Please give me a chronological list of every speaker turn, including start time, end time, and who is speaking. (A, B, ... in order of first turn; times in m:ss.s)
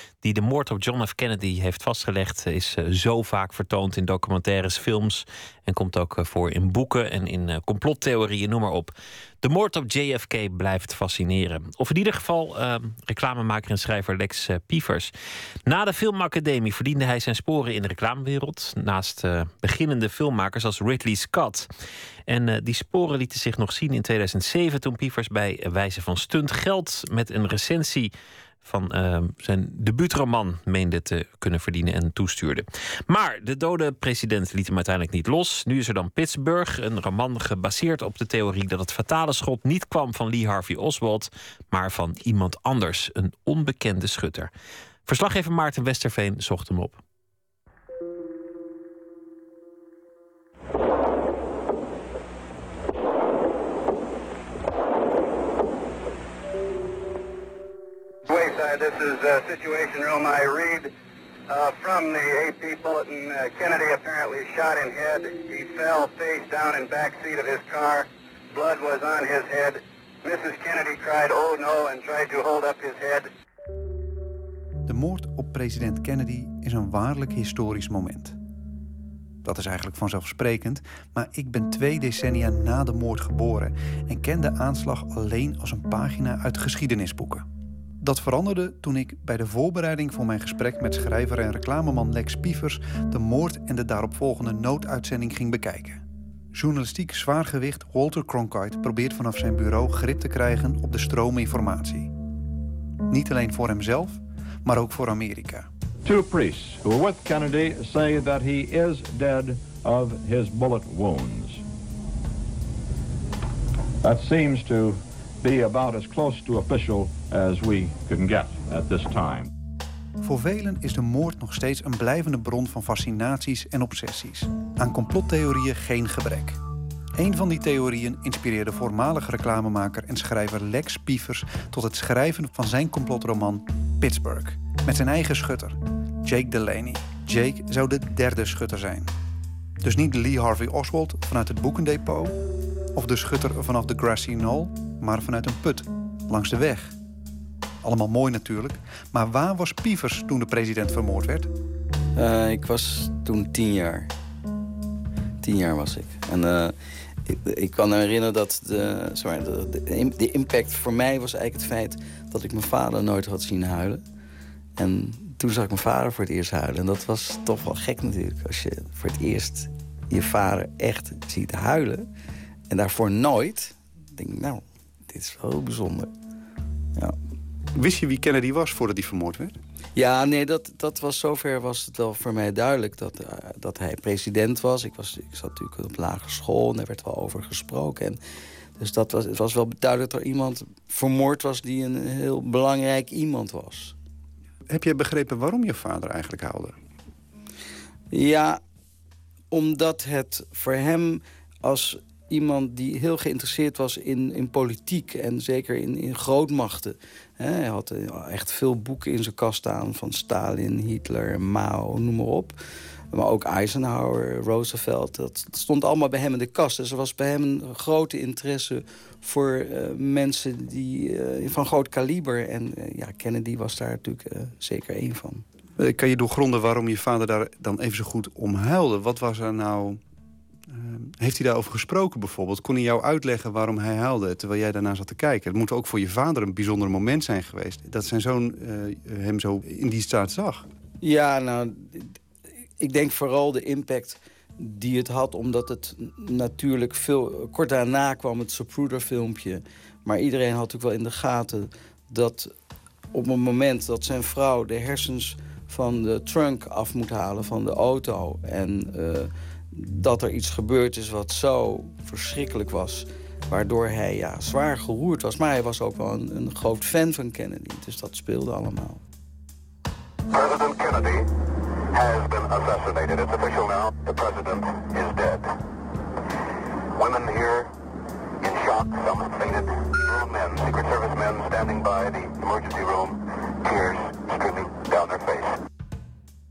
0:00.2-0:15.1 A
0:15.6-0:21.7 A
0:22.3-0:28.1 A
0:28.6-0:44.5 A
0:45.0-0:47.0 A
0:58.2-1:00.9 B
1:01.5-1:13.3 B
1:14.8-1:18.4 C
1:19.4-1:27.4 C
1:28.0-1:42.1 C
1:43.1-1:45.7 C
1:46.0-1:51.6 D
1:54.0-1:59.5 D
2:00.2-2:06.6 C
2:07.2-2:19.1 C
2:19.8-2:22.3 C
2:22.9-2:26.9 C
2:27.8-2:31.5 C
2:32.2-2:34.1 E
2:35.4-2:36.7 E
2:37.3-2:44.0 E
2:44.8-2:52.0 E
2:52.7-2:56.1 E
2:57.8-2:59.6 C
3:00.0-3:08.2 E
3:08.8-3:13.9 E
3:14.7-3:16.7 C
3:18.1-3:18.6 E
3:19.5-3:32.5 E
3:33.1-3:45.4 E
3:45.8-3:50.0 C
3:50.7-4:00.6 C
4:01.0-4:02.1 E
4:02.8-4:12.5 E
4:13.1-4:29.0 E
4:30.3-4:31.3 F
4:31.9-4:35.5 F
4:36.9-4:37.7 F
4:38.4-4:45.6 F